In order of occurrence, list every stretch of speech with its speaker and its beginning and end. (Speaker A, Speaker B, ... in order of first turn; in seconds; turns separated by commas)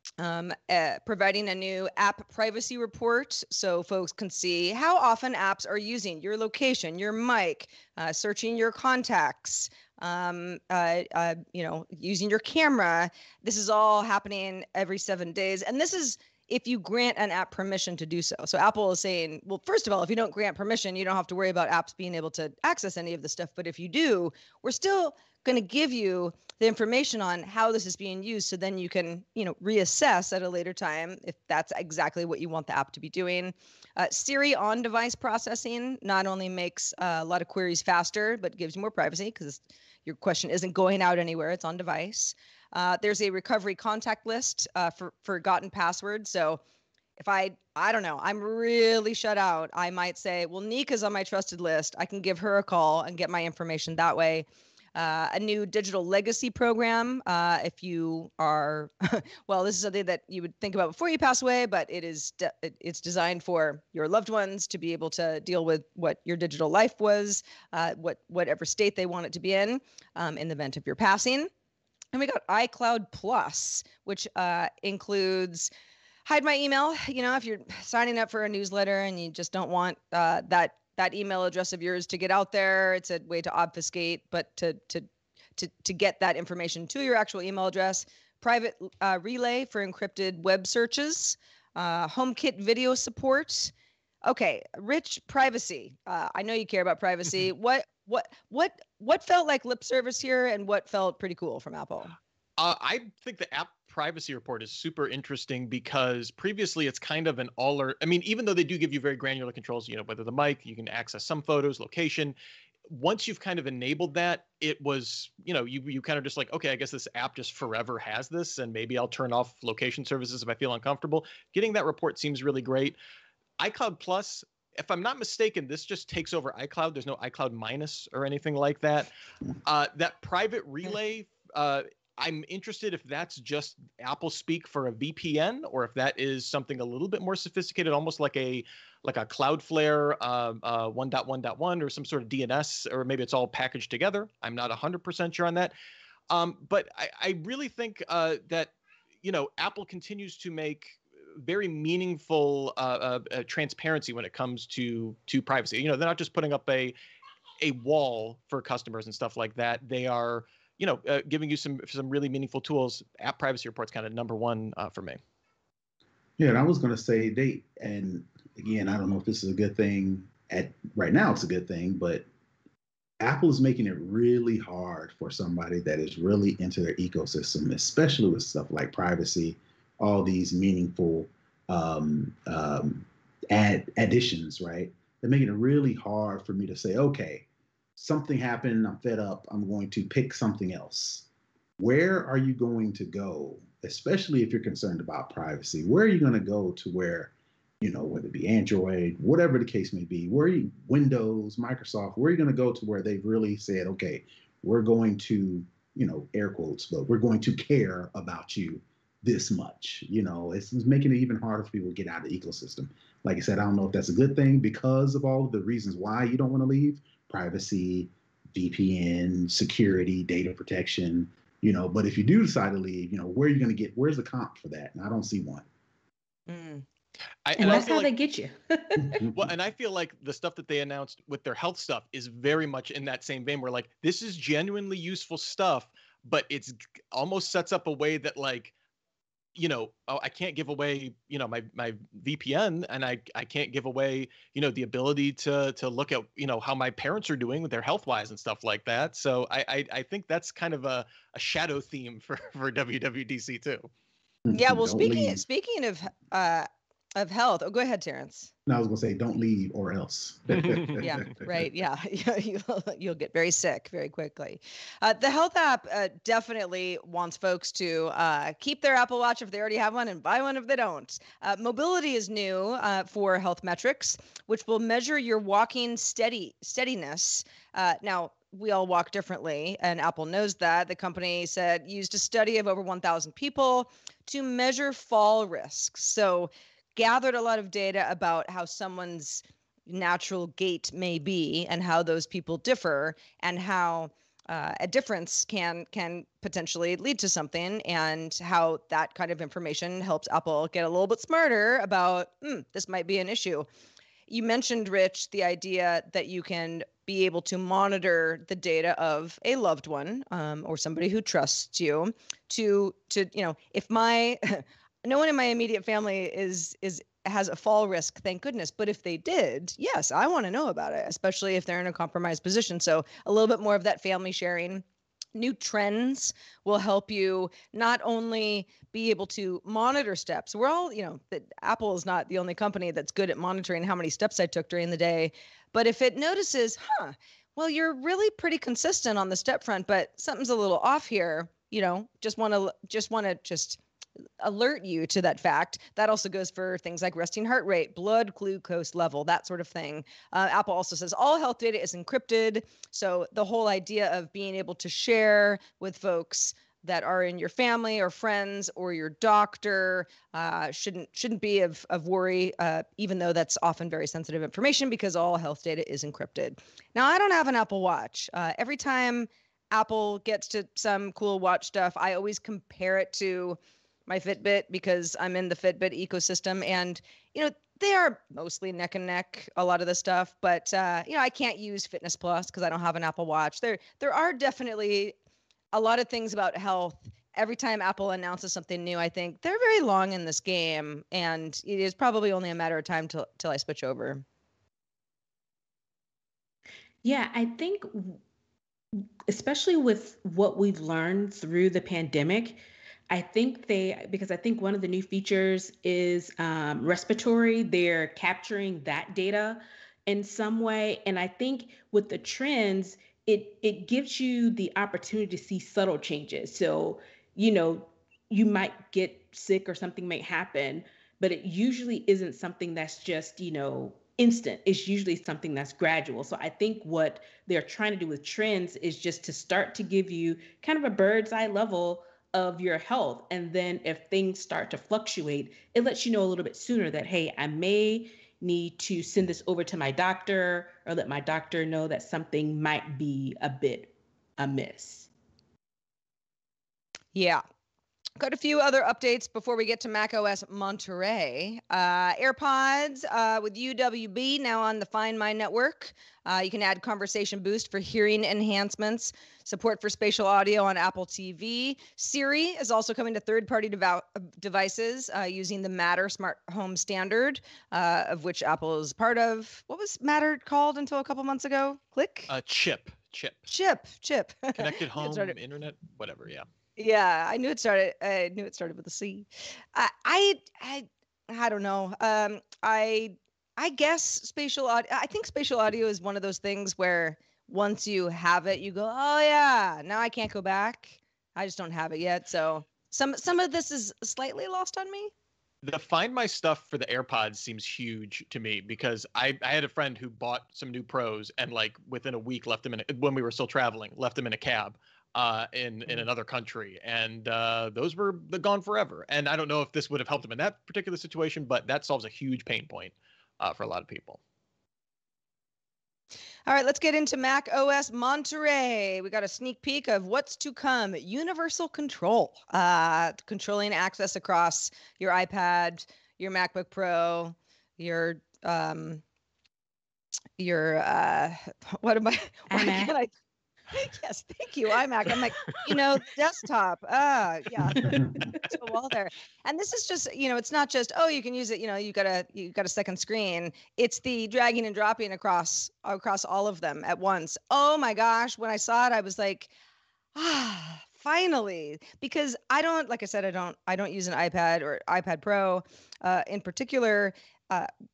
Speaker A: 0.2-46.6, Speaker A: 47.2-71.5, Speaker A: 72.1-75.7, Speaker A: 76.2-93.7, Speaker A: 94.2-102.1, Speaker B: 102.6-112.3, Speaker B: 112.9-123.0, Speaker B: 123.6-129.1, Speaker B: 129.6-145.7, Speaker B: 146.3-156.9, Speaker B: 157.6-165.2, Speaker C: 166.4-172.2, Speaker C: 173.2-187.4, Speaker C: 187.9-191.2, Speaker C: 191.8-225.6, Speaker A: 226.5-226.8, Speaker B: 227.4-228.1, Speaker D: 227.6-229.3, Speaker C: 229.0-229.3, Speaker B: 229.3-238.7, Speaker B: 239.6-253.9, Speaker C: 254.4-255.4, Speaker A: 254.5-258.5, Speaker C: 258.6-261.6, Speaker A: 261.0-303.7, Speaker A: 304.3-324.8, Speaker A: 325.3-343.8, Speaker A: 344.4-385.1, Speaker A: 385.7-394.2, Speaker D: 397.0-398.2, Speaker D: 399.3-445.1, Speaker A: 447.1-447.4, Speaker A: 448.2-472.3, Speaker B: 472.3-473.5, Speaker A: 473.5-475.4, Speaker B: 474.5-476.4, Speaker A: 476.8-495.1, Speaker B: 495.6-514.2, Speaker A: 516.5-529.0, Speaker A: 530.4-533.1, Speaker D: 532.5-533.0, Speaker A: 533.7-549.5, Speaker A: 550.1-557.7